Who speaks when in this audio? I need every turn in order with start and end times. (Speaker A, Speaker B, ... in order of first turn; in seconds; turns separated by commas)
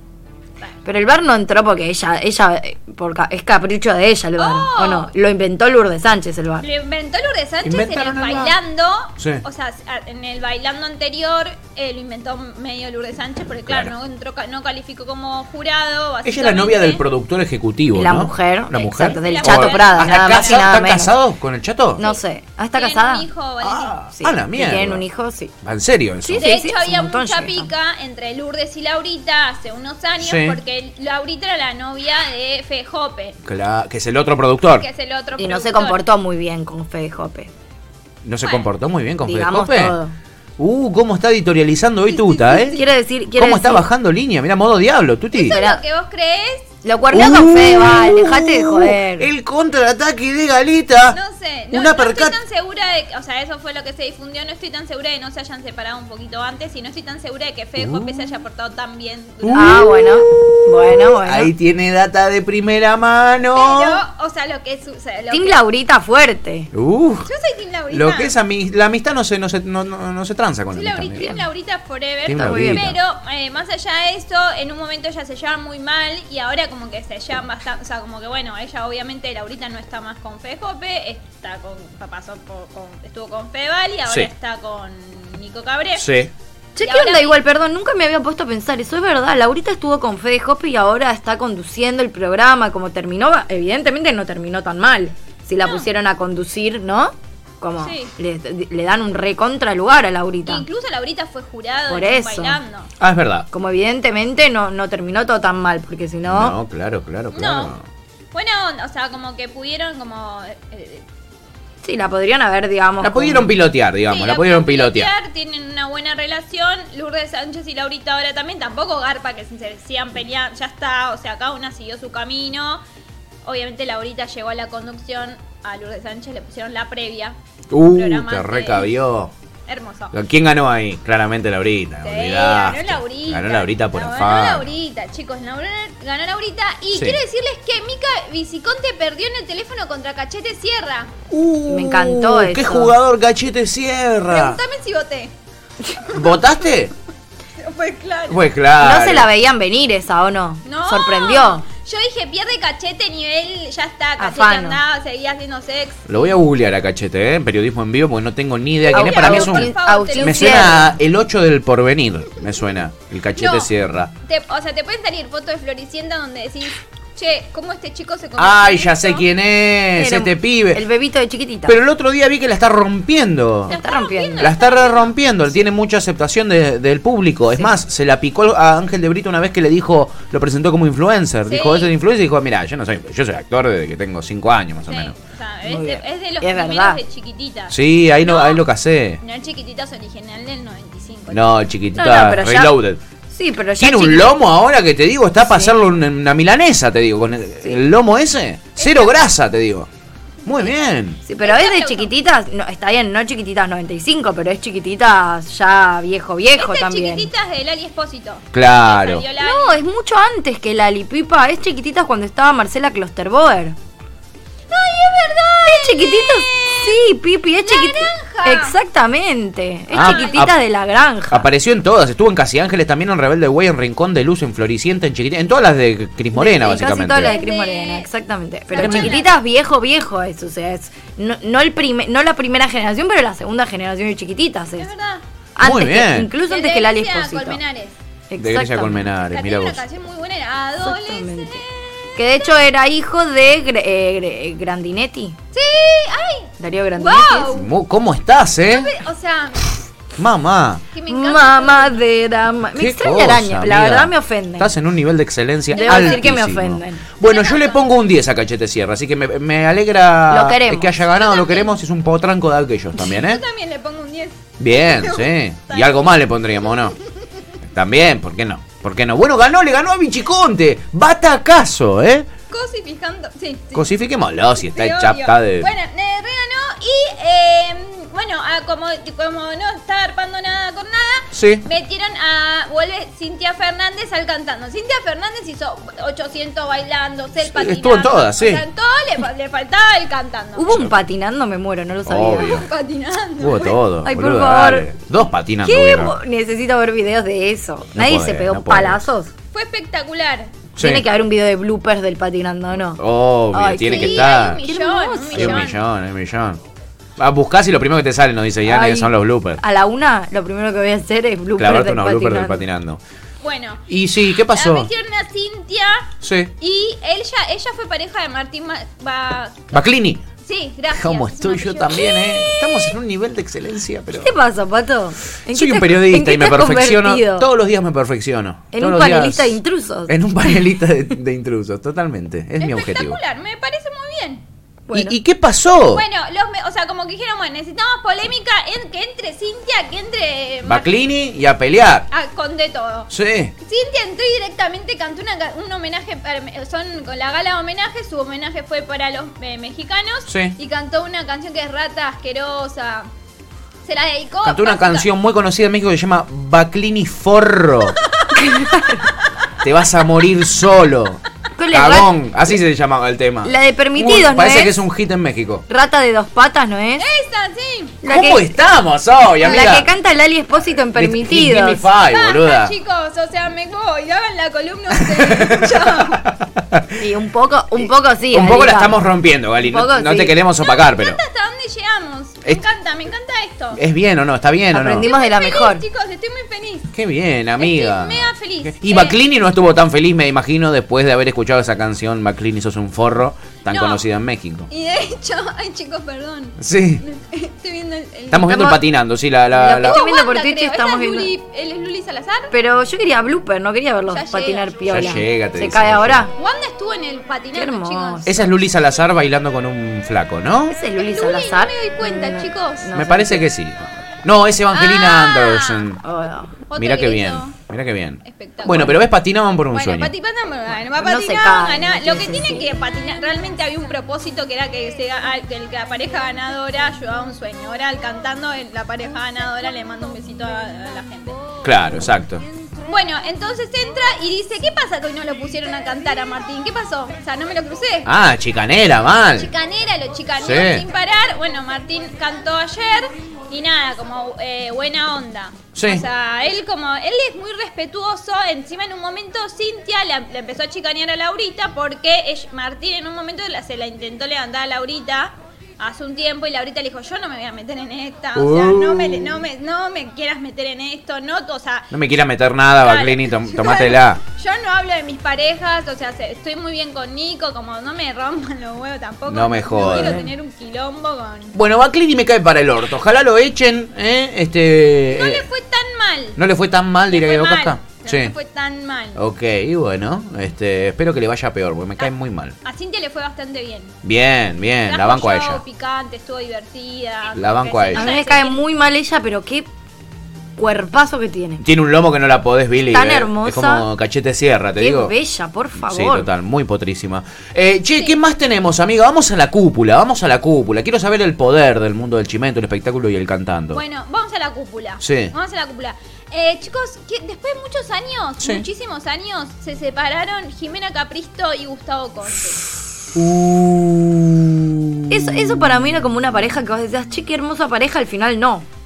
Speaker A: 0.8-6.7, Speaker B: 4.4-5.1, Speaker B: 6.6-17.0, Speaker C: 7.6-8.5, Speaker C: 9.2-9.4, Speaker C: 16.2-22.0, Speaker A: 17.9-21.1, Speaker B: 18.9-20.6, Speaker A: 21.9-23.2, Speaker B: 22.7-23.9, Speaker C: 23.6-25.0, Speaker A: 24.1-25.5, Speaker C: 25.6-26.5, Speaker A: 26.2-27.7, Speaker B: 26.4-33.4, Speaker C: 30.2-30.6, Speaker C: 33.4-34.9, Speaker B: 34.8-36.0, Speaker A: 35.4-37.5, Speaker C: 38.2-40.0, Speaker A: 39.2-40.1, Speaker C: 40.6-45.6, Speaker A: 42.5-43.9, Speaker B: 45.3-46.7, Speaker A: 45.4-45.8, Speaker A: 46.8-49.3, Speaker C: 47.1-51.2, Speaker B: 51.1-59.9, Speaker C: 51.7-52.3, Speaker C: 57.8-58.2, Speaker C: 59.4-64.0, Speaker A: 59.5-61.5, Speaker B: 63.5-65.6, Speaker A: 65.3-66.7, Speaker C: 66.7-67.3, Speaker B: 67.2-68.3, Speaker C: 67.9-71.3, Speaker B: 70.7-86.1, Speaker A: 71.2-71.4, Speaker C: 72.2-73.0, Speaker A: 72.3-72.9, Speaker C: 86.0-86.3, Speaker A: 86.8-100.7, Speaker B: 86.8-87.4, Speaker B: 95.6-95.9, Speaker B: 97.8-98.1, Speaker B: 100.5-102.9, Speaker A: 101.9-102.6, Speaker C: 103.0-103.5, Speaker A: 103.5-106.5, Speaker C: 106.2-107.8, Speaker B: 107.3-107.7, Speaker B: 108.3-111.0, Speaker A: 111.8-113.5, Speaker C: 113.0-115.1, Speaker B: 114.1-122.8, Speaker B: 123.4-128.9, Speaker C: 127.7-129.3, Speaker B: 129.7-130.1, Speaker C: 130.1-134.7, Speaker B: 132.0-141.1, Speaker C: 141.3-144.6, Speaker A: 141.7-142.9, Speaker B: 144.3-145.3, Speaker C: 146.1-146.9, Speaker B: 147.6-148.4, Speaker C: 148.3-149.3, Speaker A: 148.8-151.7, Speaker B: 150.6-156.3, Speaker A: 154.2-154.8, Speaker C: 156.1-164.1, Speaker B: 158.8-160.9, Speaker A: 158.9-160.9, Speaker B: 163.3-163.7, Speaker B: 164.2-169.2, Speaker C: 168.4-170.8, Speaker A: 169.9-171.8, Speaker C: 171.7-173.7, Speaker A: 173.7-174.5, Speaker B: 173.7-175.1, Speaker C: 174.4-185.1, Speaker B: 181.5-181.9, Speaker B: 184.9-188.6, Speaker A: 185.6-187.0, Speaker C: 187.7-189.2, Speaker B: 189.2-191.4, Speaker C: 191.3-193.0, Speaker A: 191.9-192.8, Speaker A: 193.3-194.3, Speaker C: 193.8-199.9, Speaker A: 195.4-195.8, Speaker B: 198.8-199.2, Speaker C: 200.4-201.2, Speaker A: 201.2-207.3, Speaker B: 201.4-202.1, Speaker B: 206.6-209.8, Speaker C: 208.5-209.2, Speaker A: 209.4-213.8, Speaker B: 214.7-217.1, Speaker A: 215.6-221.5, Speaker B: 217.6-218.8, Speaker B: 219.9-220.4, Speaker C: 219.9-220.6, Speaker C: 221.3-227.3, Speaker A: 226.3-234.9, Speaker B: 227.1-228.1, Speaker B: 228.7-229.3, Speaker C: 228.8-229.2, Speaker B: 234.8-235.2, Speaker A: 235.6-237.6, Speaker C: 235.6-236.3, Speaker B: 236.4-237.9, Speaker A: 238.3-239.1, Speaker C: 238.4-239.8, Speaker B: 239.2-242.6, Speaker A: 240.8-241.6, Speaker A: 242.2-245.4, Speaker B: 245.5-247.7, Speaker A: 246.6-247.5, Speaker C: 247.5-248.9, Speaker B: 248.7-249.8, Speaker C: 250.2-250.8, Speaker B: 250.9-252.0, Speaker A: 251.1-254.7, Speaker C: 252.7-263.4, Speaker B: 255.7-256.2, Speaker A: 255.8-257.0, Speaker B: 257.2-257.9, Speaker A: 260.3-260.9, Speaker B: 261.1-261.8, Speaker B: 263.0-266.0, Speaker C: 264.6-266.9, Speaker C: 267.6-272.3, Speaker B: 272.5-273.9, Speaker C: 273.7-275.7, Speaker B: 274.7-290.7, Speaker C: 281.3-281.6, Speaker C: 287.4-288.6, Speaker A: 290.6-292.6, Speaker C: 292.1-292.7, Speaker B: 292.4-293.8, Speaker C: 293.4-296.1, Speaker A: 294.0-294.9, Speaker A: 295.6-299.3, Speaker C: 297.9-299.0, Speaker B: 299.5-300.5, Speaker C: 300.8-301.1, Speaker A: 300.8-303.0, Speaker C: 303.0-304.6, Speaker A: 303.5-305.7, Speaker B: 303.9-305.8, Speaker C: 305.3-306.6, Speaker C: 307.2-309.6, Speaker A: 308.6-312.6, Speaker C: 311.6-313.0, Speaker B: 313.4-313.9, Speaker C: 313.9-314.9, Speaker B: 314.5-319.7, Speaker C: 316.2-316.5, Speaker C: 319.7-320.2, Speaker B: 320.4-322.7, Speaker C: 320.9-324.3, Speaker A: 324.1-327.5, Speaker C: 325.5-333.2, Speaker A: 328.7-330.6, Speaker B: 332.6-334.4, Speaker A: 334.9-335.2, Speaker C: 334.9-336.0, Speaker B: 335.9-340.9, Speaker C: 340.6-342.1, Speaker B: 342.1-343.1, Speaker C: 343.1-343.5, Speaker B: 343.6-353.1, Speaker C: 350.3-350.6, Speaker B: 353.8-355.1, Speaker C: 354.4-358.0, Speaker B: 358.0-358.4, Speaker A: 358.3-359.0, Speaker C: 359.6-365.6, Speaker A: 361.6-362.2, Speaker A: 363.4-364.8, Speaker A: 365.7-367.0, Speaker B: 367.0-368.0, Speaker A: 368.0-368.5, Speaker C: 368.1-369.9, Speaker A: 369.4-371.9, Speaker C: 370.9-372.7, Speaker B: 372.0-376.2, Speaker C: 375.1-377.0, Speaker A: 377.0-379.0, Speaker C: 378.3-381.2, Speaker A: 379.6-380.4, Speaker B: 380.6-383.8, Speaker C: 383.8-385.1, Speaker A: 384.7-385.8, Speaker B: 385.0-386.9, Speaker C: 386.9-394.7, Speaker B: 387.6-389.2, Speaker B: 393.7-394.0, Speaker B: 394.7-398.7, Speaker C: 396.6-397.0, Speaker C: 398.3-400.0, Speaker A: 398.4-398.8, Speaker A: 399.5-401.3, Speaker B: 399.9-402.5, Speaker A: 402.5-406.3, Speaker B: 404.1-405.1, Speaker C: 404.9-406.3, Speaker B: 406.4-408.4, Speaker A: 407.5-408.3, Speaker C: 408.2-410.8, Speaker A: 410.7-413.5, Speaker B: 411.0-413.0, Speaker C: 412.9-416.0, Speaker B: 414.7-415.9, Speaker A: 416.0-416.5, Speaker B: 416.7-417.6, Speaker C: 416.8-420.1, Speaker B: 418.2-419.0, Speaker B: 419.7-431.4, Speaker A: 421.0-422.7, Speaker C: 431.6-432.4, Speaker B: 432.8-438.1, Speaker C: 438.0-439.5, Speaker B: 439.4-461.9, Speaker C: 440.4-440.8, Speaker C: 445.7-446.0, Speaker C: 458.4-459.4, Speaker C: 461.9-464.2, Speaker B: 462.8-471.6, Speaker C: 469.3-470.3, Speaker C: 471.5-475.5, Speaker B: 475.1-476.4, Speaker C: 476.4-478.3, Speaker B: 477.1-479.2, Speaker C: 479.1-482.6, Speaker B: 482.6-483.9, Speaker C: 484.0-485.6, Speaker B: 484.9-488.6, Speaker C: 487.3-488.1, Speaker A: 487.9-489.7, Speaker A: 490.6-491.6, Speaker C: 491.6-495.1, Speaker A: 492.9-493.9, Speaker A: 494.8-496.3, Speaker C: 495.8-503.8, Speaker B: 503.7-512.6, Speaker C: 505.0-505.3, Speaker C: 508.4-508.6, Speaker C: 513.1-515.5, Speaker A: 515.1-518.6